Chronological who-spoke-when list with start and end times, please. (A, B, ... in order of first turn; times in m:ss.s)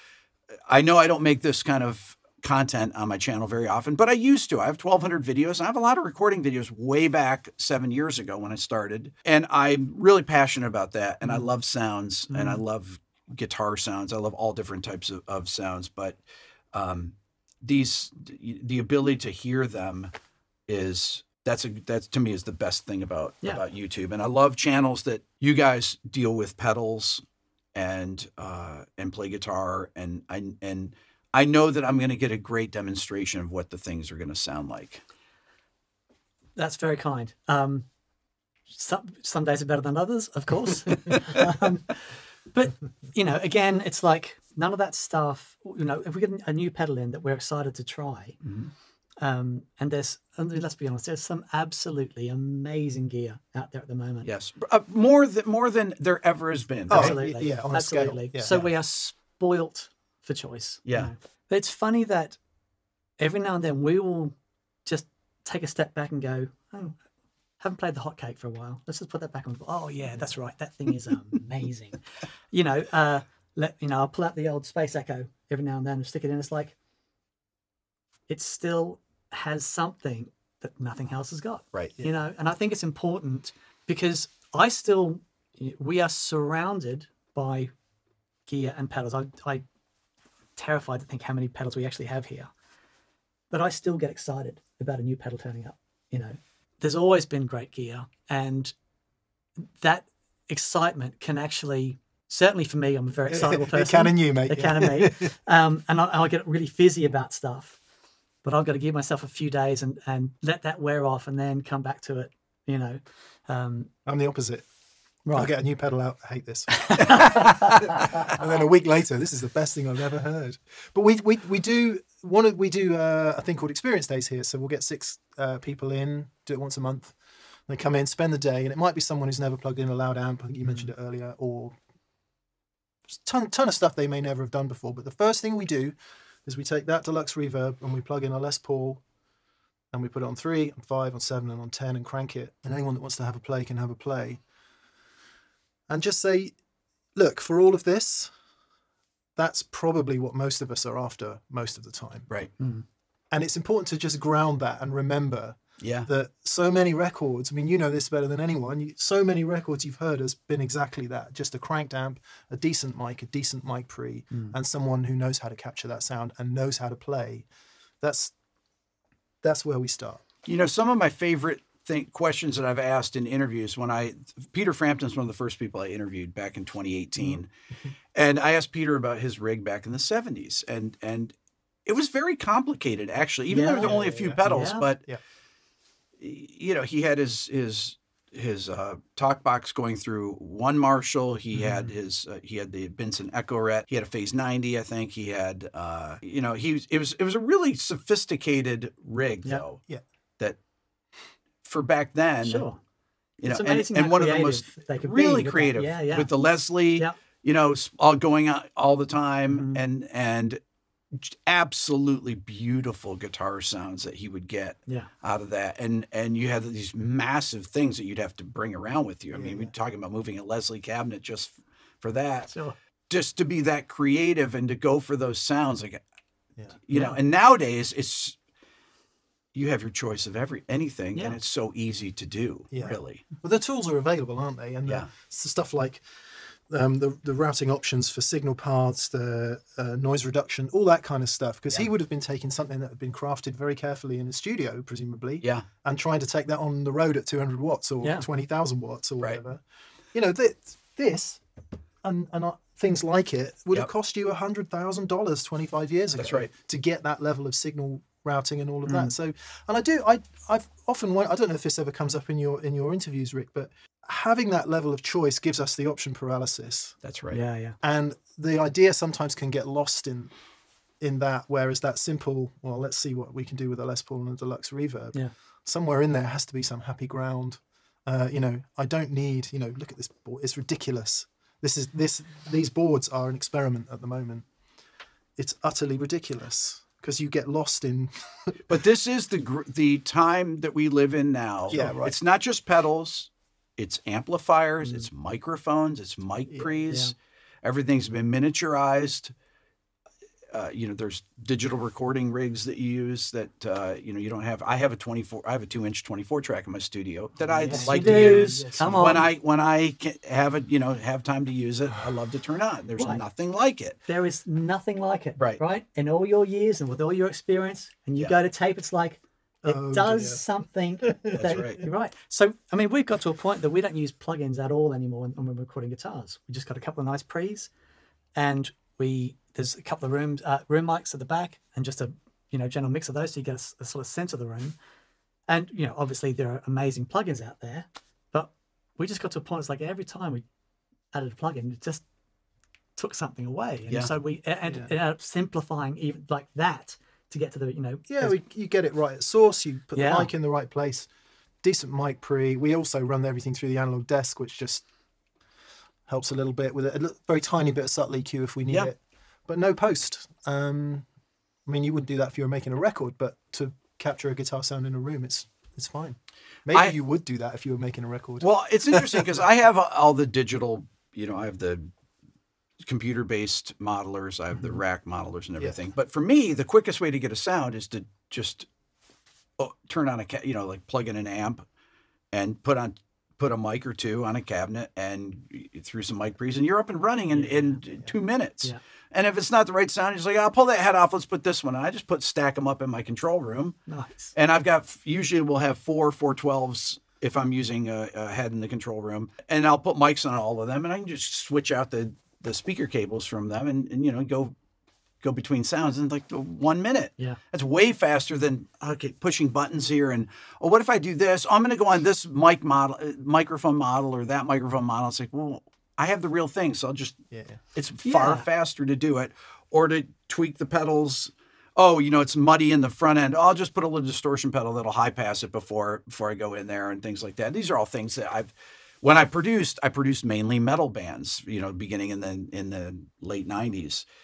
0:00.7-0:16.2 A
0:12.3-0:12.6 B
0:16.7-0:20.1 A
0:20.7-0:27.2 A
0:27.7-0:35.0 A
0:36.6-0:37.8 B
0:38.7-0:48.4 B
0:40.9-0:41.2 A
0:48.4-0:48.7 A
0:49.2-0:54.3 B
0:54.2-0:57.2 A
0:56.9-1:02.4 B
0:56.9-0:58.7 C
1:00.8-1:01.1 A
1:03.2-1:04.3 B
1:04.8-1:07.0 B
1:07.6-1:16.7 B
1:18.3-1:27.7 B
1:28.5-1:29.6 B
1:30.6-1:32.5 B
1:33.5-1:38.7 B
1:39.6-1:47.8 B
1:43.3-1:45.3 C
1:48.4-1:53.9 B
1:54.0-1:54.6 C
1:55.3-2:11.8 C
1:56.8-1:58.3 B
2:13.1-2:19.0 C
2:19.9-2:24.4 C
2:25.9-2:26.6 C
2:27.1-2:28.3 C
2:29.4-2:32.3 C
2:32.6-2:32.8 B
2:33.3-2:47.4 C
2:35.8-2:36.1 A
2:48.0-2:48.3 C
2:49.4-2:50.2 C
2:50.4-2:57.5 A
2:58.1-3:01.3 A
3:01.8-3:05.0 A
3:03.5-3:04.8 B
3:03.8-3:05.2 C
3:06.2-3:19.8 A
3:21.6-3:22.7 A
3:22.4-3:22.8 B
3:23.4-3:30.6 A
3:23.5-3:26.3 B
3:29.5-3:29.8 B
3:31.1-3:42.5 A
3:39.3-3:39.7 C
3:43.1-3:46.0 A
3:46.9-3:48.4 A
3:46.9-3:47.2 B
3:49.5-3:53.2 A
3:52.7-4:11.4 C
4:12.0-4:27.0 C
4:16.2-4:16.5 A
4:18.9-4:19.1 B
4:27.0-4:27.4 A
4:27.3-4:27.8 B
4:27.8-4:30.3 C
4:31.0-4:44.5 C
4:45.4-4:48.6 C
4:48.7-4:59.3 A
4:51.7-4:52.1 C
4:56.9-4:57.1 B
5:00.5-5:14.0 A
5:07.5-5:09.3 C
5:07.6-5:09.3 B
5:14.1-5:27.7 B
5:19.6-5:20.4 C
5:21.0-5:21.7 C
5:21.3-5:21.8 A
5:28.4-5:34.8 B
5:35.5-5:40.4 B
5:41.1-5:42.0 B
5:43.0-5:48.3 B
5:48.1-5:51.1 C
5:49.9-5:50.3 B
5:51.6-5:54.8 C
5:56.1-6:01.1 C
6:01.6-6:09.3 C
6:08.4-6:11.9 A
6:12.8-6:18.7 A
6:19.6-6:21.6 A
6:22.3-6:33.8 A
6:27.3-6:27.8 B
6:33.9-6:34.3 B
6:34.3-6:44.5 A
6:45.2-6:57.2 A
6:57.3-6:57.6 C
6:57.7-7:14.0 A
6:58.0-6:58.4 B